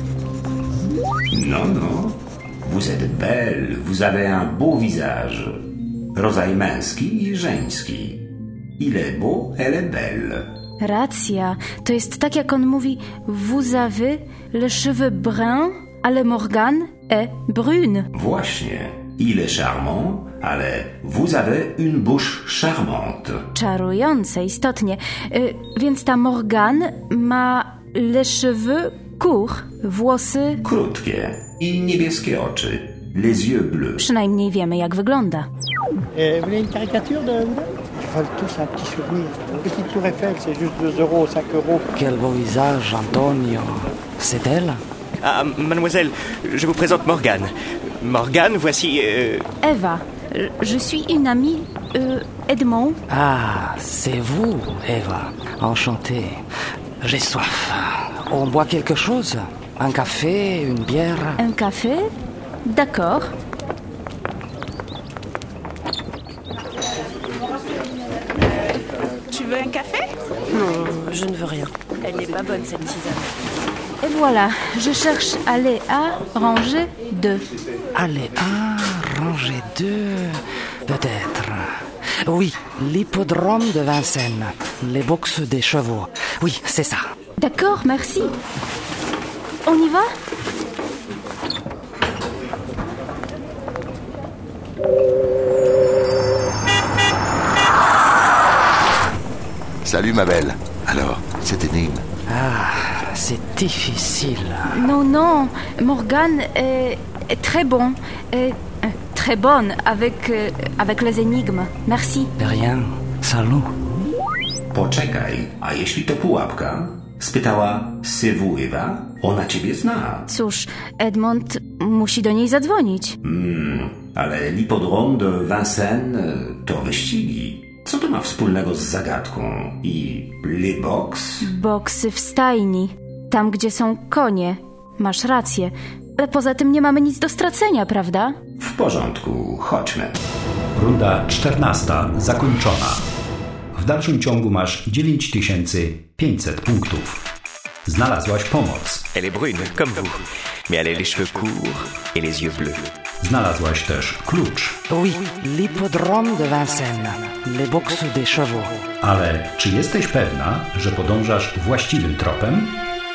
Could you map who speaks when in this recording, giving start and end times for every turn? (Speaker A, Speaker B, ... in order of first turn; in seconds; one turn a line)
Speaker A: 1.3-5.6
Speaker A: 6.2-8.2
Speaker A: 8.8-10.5
Speaker B: 10.8-18.1
Speaker A: 18.1-23.4
Speaker B: 23.6-30.6
Speaker A: 30.6-34.0
Speaker B: 34.0-35.5
Speaker C: 36.1-41.9
Speaker D: 42.0-44.8
Speaker E: 45.2-47.5
Speaker E: 48.0-49.5
Speaker B: 49.6-53.0
Speaker D: 53.1-56.4
Speaker D: 57.0-61.4
Speaker B: 61.4-62.0
Speaker B: 62.7-63.3
Speaker F: 70.5-73.2
Speaker B: 74.0-77.4
Speaker D: 78.0-81.7
Speaker D: 82.2-87.0
Speaker B: 87.4-88.3
Speaker B: 89.7-90.1
Speaker G: 99.8-102.0
Speaker D: 102.3-104.9
Speaker B: 104.7-112.3
Speaker D: 112.4-113.7
Speaker A: 114.7-120.3
Speaker B: 120.3-123.2
Speaker A: 123.2-131.4
Speaker B: 131.4-138.4
Speaker A: 138.6-140.2
Speaker H: 140.8-143.0
Speaker H: 143.7-147.2
Speaker H: 147.9-149.1
Speaker E: 149.2-152.9
Speaker H: 153.2-154.8
Speaker D: 154.9-158.8
Speaker H: 159.0-162.8